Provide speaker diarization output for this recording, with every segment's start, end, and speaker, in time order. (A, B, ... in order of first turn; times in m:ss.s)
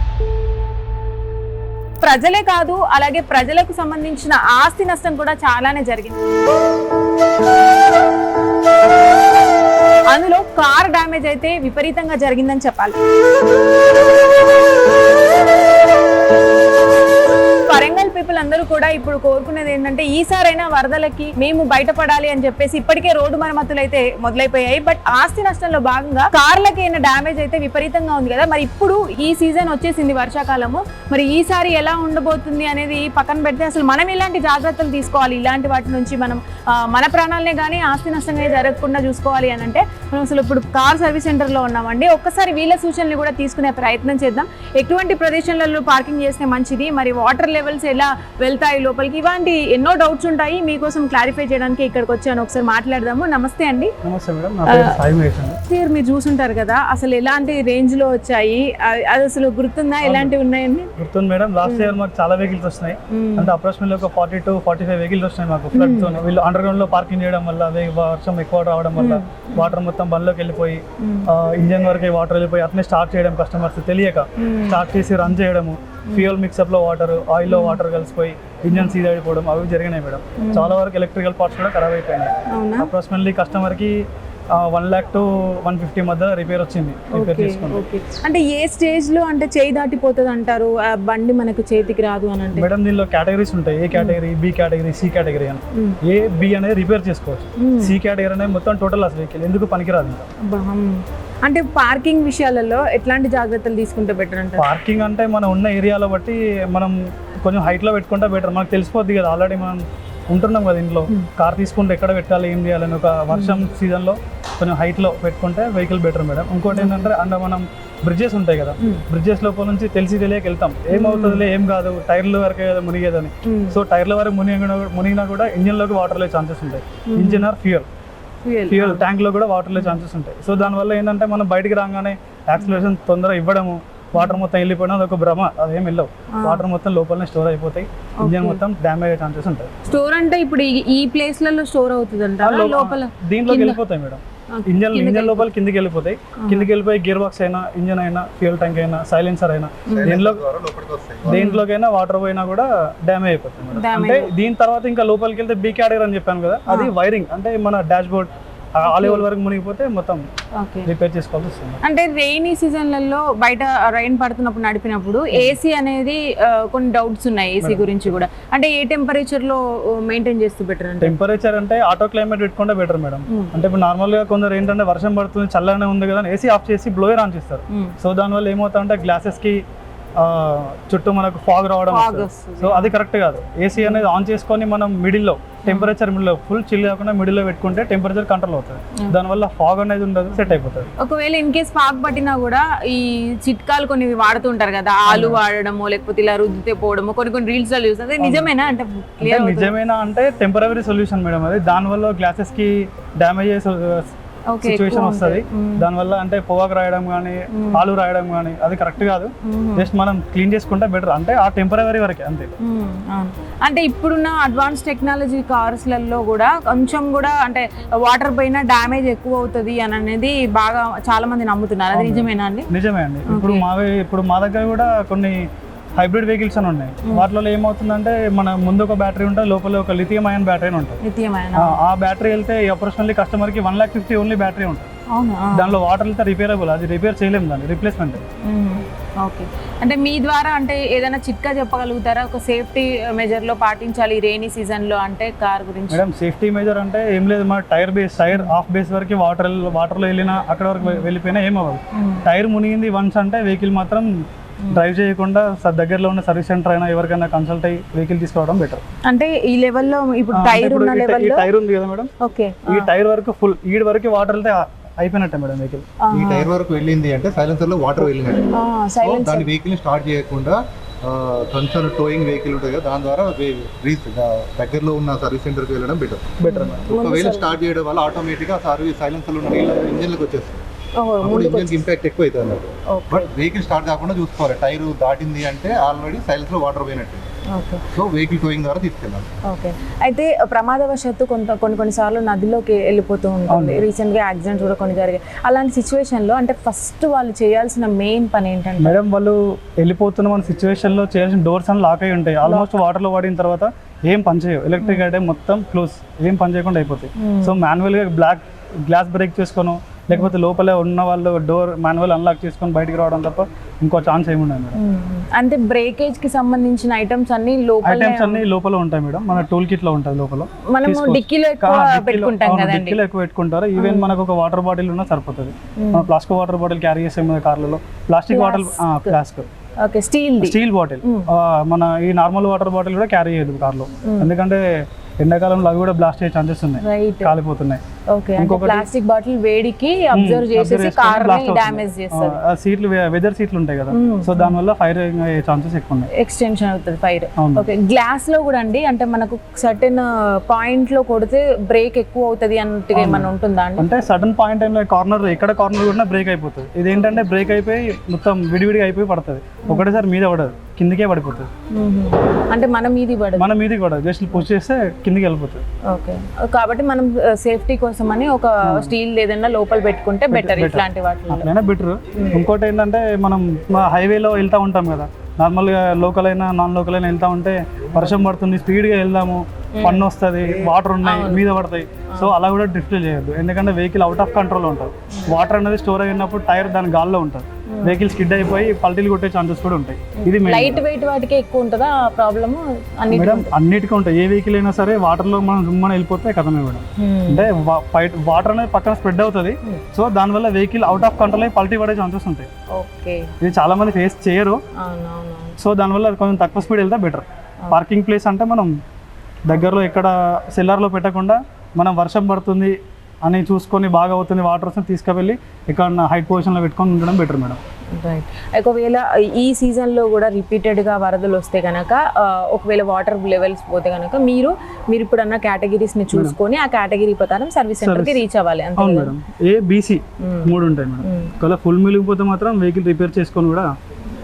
0:02.0-0:06.2 A
0:10.1-0:13.0 A
0:17.7-0:53.9 A
0:54.0-0:55.6 B
0:54.7-0:55.0 A
0:55.6-1:00.9 A
1:00.0-1:00.4 B
1:01.0-1:24.0 B
1:01.6-1:02.0 A
1:03.1-1:03.5 A
1:05.7-1:06.2 A
1:09.0-1:09.7 A
1:11.0-1:11.3 A
1:14.4-1:14.8 A
1:16.1-1:16.4 A
1:17.5-1:17.8 A
1:20.4-1:20.8 A
1:22.5-1:22.9 A
1:24.6-1:27.8 B
1:27.1-1:32.7 A
1:32.5-1:40.2 B
1:37.6-1:38.0 A
1:40.4-1:44.7 A
1:44.6-2:07.9 B
1:53.3-1:53.7 A
1:56.7-1:57.1 A
2:00.9-2:01.4 A
2:03.4-2:03.8 A
2:07.1-2:07.5 A
2:08.4-2:09.0 A
2:08.7-2:19.7 B
2:14.2-2:14.4 A
2:16.3-2:16.6 A
2:18.2-2:18.6 A
2:19.8-2:23.8 A
2:22.4-2:30.4 B
2:24.5-2:25.5 A
2:26.4-2:26.7 A
2:29.9-2:30.2 A
2:29.9-2:31.4 C
2:31.3-2:40.2 B
2:31.3-2:31.6 A
2:33.7-2:34.3 A
2:36.7-2:36.9 A
2:38.9-2:39.2 A
2:40.6-2:40.9 A
2:40.8-2:41.8 B
2:41.8-2:51.2 A
2:47.6-2:48.1 B
2:51.0-2:59.6 B
3:00.2-3:10.9 B
3:01.9-3:02.9 A
3:03.8-3:04.1 A
3:05.6-3:05.9 A
3:10.3-3:19.8 A
3:15.1-3:15.4 B
3:18.2-3:18.5 B
3:19.2-3:24.1 B
3:24.5-3:25.9 A
3:24.6-3:32.5 B
3:27.5-3:27.8 A
3:29.4-3:29.9 A
3:32.6-3:42.7 A
3:41.9-3:45.4 B
3:43.3-3:43.6 A
3:46.0-3:51.0 B
3:51.0-3:51.8 A
3:51.6-3:54.9 B
3:55.1-3:55.8 A
3:55.5-3:58.2 B
3:58.4-4:06.0 A
4:05.9-4:14.1 B
4:10.8-4:11.1 A
4:11.9-4:12.2 A
4:14.7-4:18.8 B
4:19.1-4:21.5 A
4:20.3-4:22.1 B
4:22.2-4:22.9 A
4:22.7-4:25.8 B
4:26.0-4:26.5 A
4:26.1-4:28.5 C
4:28.0-4:29.5 A
4:29.0-4:36.4 C
4:36.4-4:36.9 B
4:36.4-4:37.5 A
4:36.9-4:40.6 C
4:41.0-4:41.8 A
4:41.2-4:47.2 C
4:42.9-4:43.3 A
4:47.5-4:47.8 A
4:47.9-4:49.3 C
4:49.5-4:59.0 A
4:53.5-4:53.8 B
4:58.8-5:14.8 B
5:02.4-5:02.7 A
5:07.2-5:07.6 A
5:14.8-5:18.4 A
5:17.8-5:29.5 B
5:20.7-5:23.0 A
5:23.8-5:24.1 A
5:25.8-5:26.1 A
5:28.3-5:29.2 A
5:29.8-5:31.3 A
5:30.4-5:34.6 B
5:34.0-5:34.3 A
5:35.2-5:37.8 B
5:36.8-5:37.3 A
5:38.1-5:42.4 A
5:38.4-5:38.9 B
5:40.1-5:46.1 B
5:43.9-5:44.6 A
5:46.1-5:53.9 A
5:47.4-5:47.7 B
5:52.9-6:01.5 B
5:59.7-6:00.0 A
6:01.8-6:03.5 A
6:03.4-6:05.6 B
6:05.9-6:11.5 A
6:08.7-6:08.9 B
6:10.3-6:30.8 B
6:12.2-6:12.4 A
6:19.8-6:20.1 A
6:21.0-6:21.5 A
6:22.1-6:22.4 A
6:30.2-6:33.5 A
6:33.1-6:42.5 B
6:37.0-6:37.5 A
6:42.7-6:43.3 A
6:43.4-6:44.6 B
6:44.8-6:45.6 A
6:45.6-6:48.7 B
6:49.5-6:57.6 B
6:57.9-7:09.1 A
7:07.8-7:08.2 B
7:08.8-7:13.7 B
7:10.2-7:11.3 A